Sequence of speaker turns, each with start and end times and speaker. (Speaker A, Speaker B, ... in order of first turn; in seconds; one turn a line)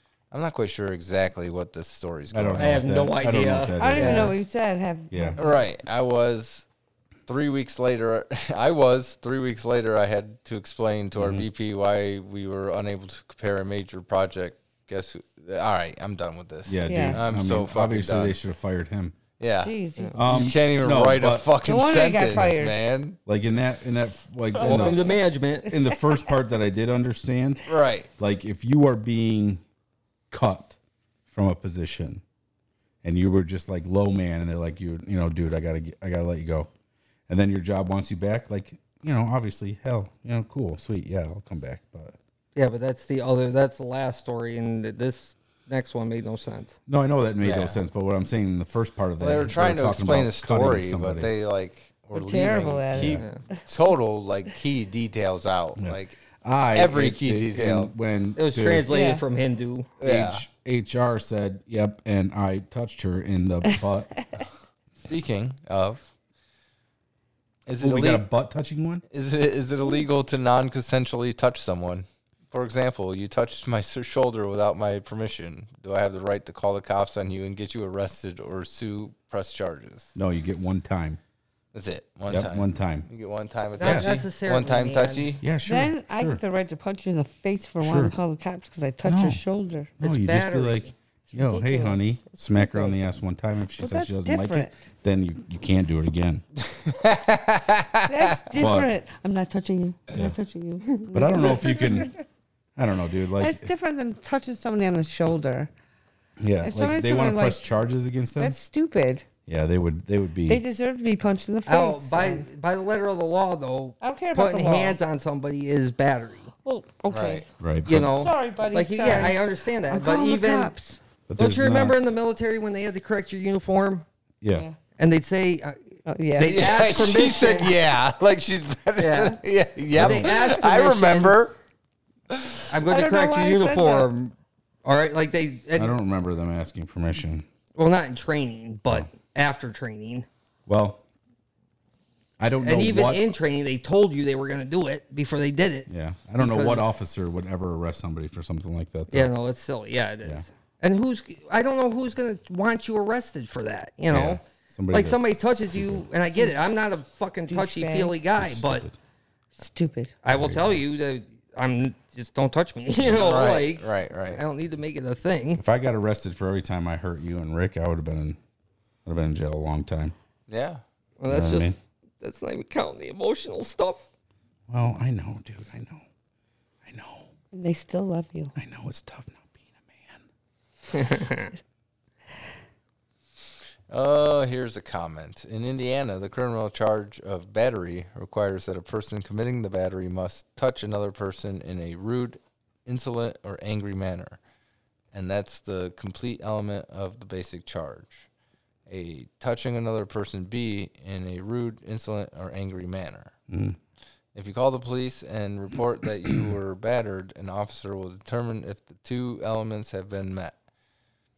Speaker A: 0.3-2.9
Speaker B: 2.3-4.3
Speaker C: 2.6-4.3
Speaker D: 3.8-5.4
Speaker B: 5.1-5.4
Speaker A: 5.4-6.7
Speaker A: 7.3-18.4
Speaker B: 11.1-11.4
Speaker B: 16.6-19.2
Speaker D: 16.9-17.2
Speaker A: 19.4-19.7
Speaker D: 19.6-20.5
Speaker B: 20.1-21.5
Speaker A: 20.2-23.2
Speaker D: 21.6-22.8
Speaker B: 23.2-29.6
Speaker D: 24.5-25.2
Speaker C: 24.6-25.7
Speaker A: 27.6-28.1
Speaker B: 30.3-32.2
Speaker B: 33.0-36.7
Speaker B: 37.3-42.2
Speaker C: 42.5-46.8
Speaker B: 46.9-51.3
Speaker A: 47.4-47.8
Speaker A: 49.2-53.0
Speaker D: 52.1-53.7
Speaker B: 52.9-53.2
Speaker C: 53.0-53.4
Speaker A: 53.6-56.2
Speaker B: 55.8-58.9
Speaker A: 56.7-57.9
Speaker C: 58.3-59.9
Speaker D: 58.9-59.2
Speaker A: 60.0-60.4
Speaker B: 60.0-64.2
Speaker A: 65.0-66.0
Speaker A: 67.7-68.3
Speaker B: 67.8-69.0
Speaker A: 69.1-80.1
Speaker B: 80.1-81.2
Speaker A: 81.7-85.4
Speaker B: 82.3-83.1
Speaker C: 83.8-85.3
Speaker B: 83.8-84.1
Speaker B: 85.4-86.4
Speaker D: 85.6-89.9
Speaker B: 87.8-88.2
Speaker B: 89.0-89.4
Speaker B: 90.0-96.4
Speaker C: 90.0-90.9
Speaker D: 91.3-93.1
Speaker D: 93.8-94.8
Speaker A: 96.8-98.0
Speaker D: 98.0-102.2
Speaker B: 98.6-98.9
Speaker B: 101.1-102.1
Speaker B: 102.8-103.7
Speaker D: 103.4-105.7
Speaker B: 106.4-108.6
Speaker D: 106.6-107.7
Speaker D: 108.4-109.2
Speaker B: 109.5-110.6
Speaker D: 110.5-112.4
Speaker C: 111.7-116.5
Speaker D: 114.0-115.0
Speaker D: 116.6-121.0
Speaker A: 117.1-117.4
Speaker B: 117.6-118.1
Speaker C: 117.8-120.7
Speaker B: 119.1-119.3
Speaker B: 121.3-122.2
Speaker C: 121.4-124.0
Speaker B: 124.4-124.7
Speaker C: 125.0-127.7
Speaker D: 126.1-126.6
Speaker A: 126.4-131.5
Speaker C: 129.0-129.4
Speaker B: 129.9-130.3
Speaker C: 129.9-131.4
Speaker C: 132.7-136.0
Speaker D: 132.9-134.1
Speaker B: 135.7-137.4
Speaker C: 137.7-140.3
Speaker B: 140.7-141.0
Speaker B: 142.4-143.3
Speaker C: 142.6-146.9
Speaker B: 145.9-149.3
Speaker C: 149.1-158.8
Speaker B: 154.1-156.1
Speaker D: 157.5-158.2
Speaker B: 158.4-158.9
Speaker D: 159.6-160.1
Speaker C: 160.2-165.6
Speaker B: 160.3-160.8
Speaker A: 163.1-164.4
Speaker B: 165.6-168.4
Speaker B: 169.0-170.1
Speaker A: 170.5-170.8
Speaker C: 171.2-174.1
Speaker B: 171.3-171.8
Speaker B: 174.7-176.0
Speaker B: 176.8-177.3
Speaker D: 177.5-178.5
Speaker B: 178.6-180.2
Speaker C: 180.9-181.5
Speaker A: 183.9-194.4
Speaker A: 195.1-198.3
Speaker A: 198.9-203.3
Speaker B: 203.5-203.8
Speaker A: 204.3-210.6